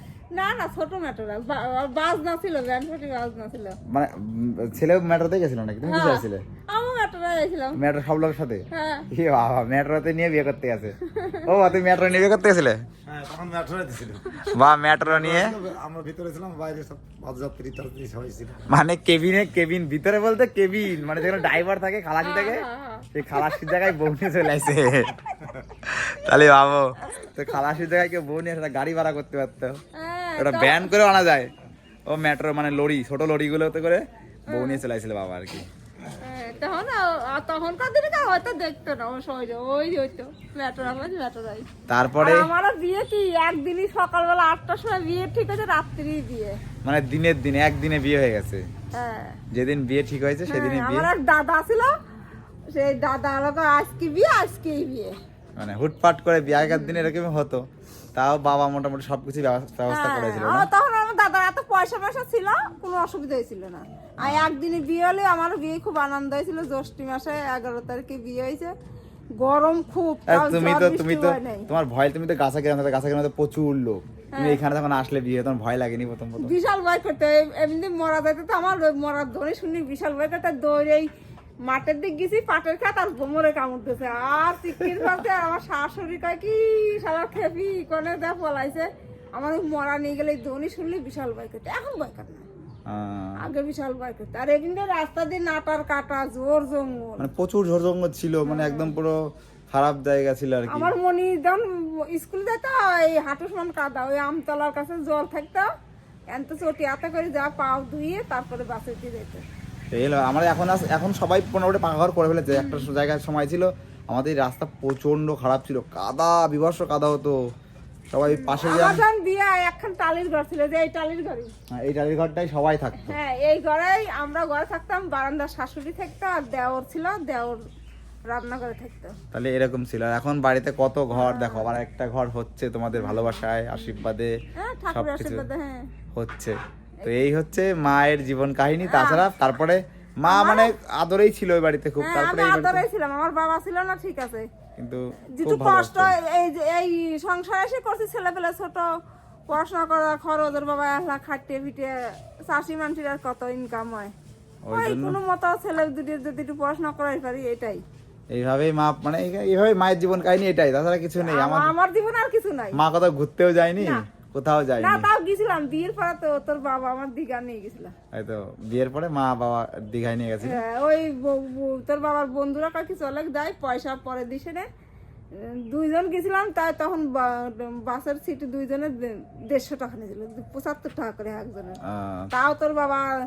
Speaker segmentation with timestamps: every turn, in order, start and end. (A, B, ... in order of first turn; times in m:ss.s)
0:00.3-0:03.8 A
0:03.9-0:06.4 B
0:05.8-0:07.8 A
0:07.8-0:12.8 B
0:08.7-0:09.1 A
0:11.1-0:11.5 A
0:13.0-0:14.4 C
0:14.4-0:15.6 B
0:15.0-0:18.6 C
0:18.6-0:25.2 B
0:21.2-0:21.4 A
0:22.2-0:24.2 A
0:25.8-0:29.8 B
0:30.0-0:30.9 A
0:30.4-0:31.5 B
0:32.1-0:35.6 B
0:34.5-0:34.8 A
0:36.2-0:41.7 A
0:41.9-0:42.5 B
0:42.2-0:46.6 A
0:46.8-0:48.6 B
0:48.9-0:49.4 A
0:49.5-0:51.1 B
0:50.5-0:51.9 A
0:52.7-0:55.1 A
0:55.6-0:57.6 B
0:56.6-0:57.1 A
0:58.1-1:00.7 B
0:59.9-1:08.7 A
1:04.2-1:04.5 B
1:09.4-1:11.7 A
1:10.3-1:16.5 B
1:14.3-1:14.6 A
1:16.4-1:21.1 A
1:21.7-1:32.4 A
1:32.9-1:33.4 B
1:33.4-1:37.3 A
1:37.2-1:39.2 B
1:38.4-1:39.0 A
1:39.7-1:40.9 B
1:40.7-1:45.7 A
1:46.3-1:49.4 A
1:49.9-1:57.4 B
1:52.5-1:52.9 A
1:58.1-1:59.0 B
1:58.3-2:01.5 A
2:01.8-2:03.2 B
2:02.9-2:07.6 A
2:08.3-2:09.1 A
2:09.3-2:14.3 B
2:11.1-2:11.8 A
2:12.9-2:14.0 A
2:14.6-2:15.8 A
2:14.9-2:15.4 B
2:16.1-2:22.8 B
2:17.0-2:17.3 A
2:18.9-2:19.3 A
2:20.3-2:20.7 A
2:22.0-2:24.5 A
2:24.8-2:26.1 B
2:25.4-2:28.9 A
2:29.5-2:31.9 A
2:32.5-2:34.1 A
2:34.6-2:35.2 B
2:34.7-2:37.8 A
2:38.3-2:41.7 B
2:41.2-2:42.8 A
2:42.7-2:45.1 B
2:44.8-2:47.9 A
2:48.1-2:50.6 B
2:50.4-2:54.7 A
2:55.3-3:01.8 A
3:01.8-3:02.3 B
3:02.3-3:03.1 A